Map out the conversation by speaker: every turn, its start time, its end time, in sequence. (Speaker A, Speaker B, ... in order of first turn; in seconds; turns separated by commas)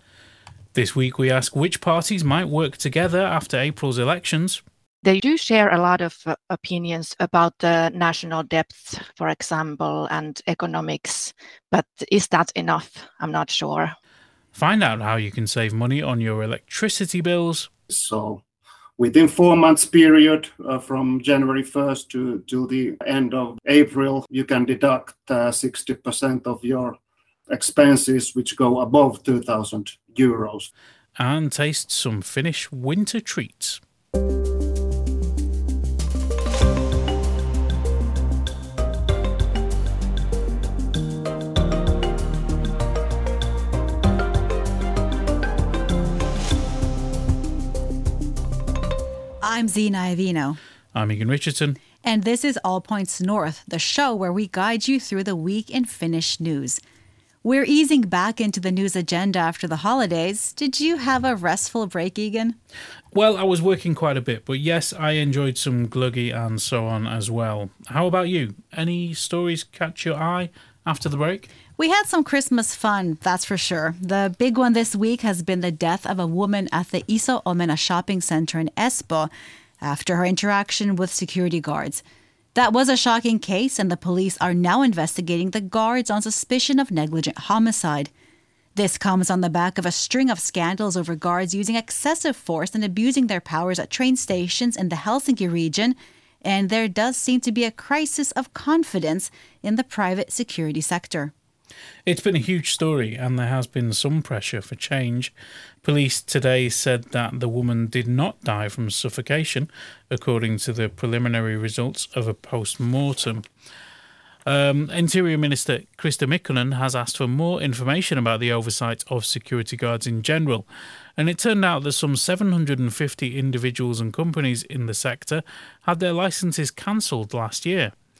Speaker A: 0.7-4.6, Speaker B: 5.0-13.9, Speaker A: 14.5-17.7, Speaker C: 17.9-18.4, Speaker C: 19.0-27.0, Speaker C: 27.5-30.7, Speaker A: 31.2-33.8, Speaker D: 49.4-50.6, Speaker A: 50.9-51.8, Speaker D: 52.0-56.8, Speaker D: 57.4-62.6, Speaker A: 63.1-71.5, Speaker D: 71.8-82.0, Speaker D: 82.5-88.1, Speaker D: 88.7-101.3, Speaker A: 102.0-105.3, Speaker A: 105.8-113.4, Speaker A: 114.5-120.7, Speaker A: 121.2-127.9